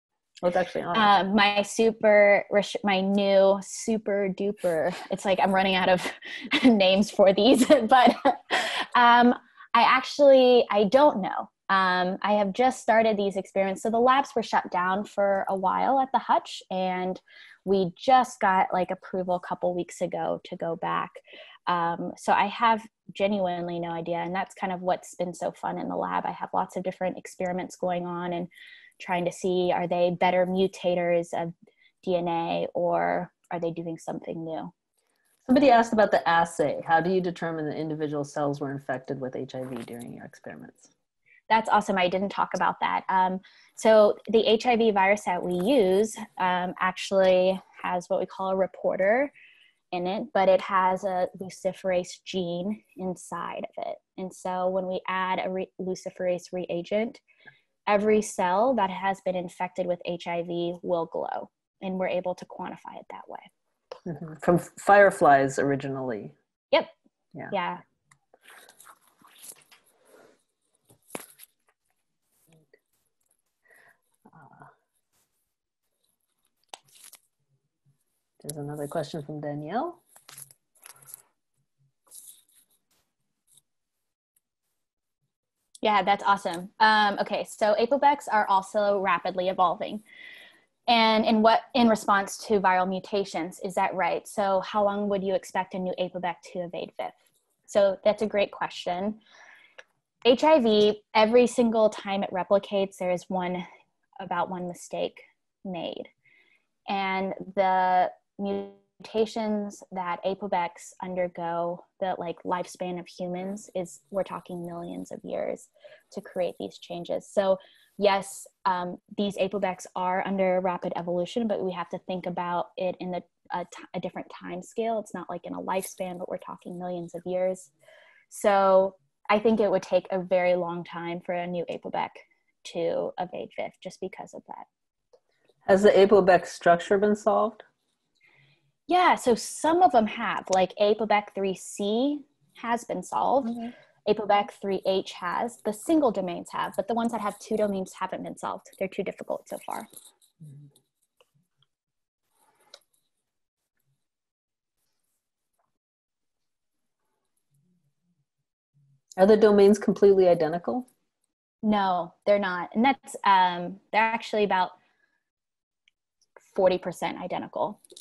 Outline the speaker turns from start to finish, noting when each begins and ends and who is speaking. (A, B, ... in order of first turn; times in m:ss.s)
0:00.4-0:01.1 A
0:00.9-0:34.7 B
0:35.4-0:40.9 A
0:41.5-0:49.3 B
0:49.9-0:57.2 B
0:57.9-1:03.5 B
1:04.1-1:06.3 A
1:07.5-1:07.8 B
1:14.3-1:14.7 A
1:18.4-1:20.0 A
1:25.8-1:30.0 B
1:30.9-1:39.2 B
1:40.2-1:43.6 B
1:44.2-1:46.1 B
1:46.9-2:07.7 B
2:08.3-2:14.6 B
2:15.6-2:17.6 A
2:18.9-2:29.9 B
2:39.2-2:40.9 A
2:41.6-2:44.7 B
2:46.4-2:47.8 B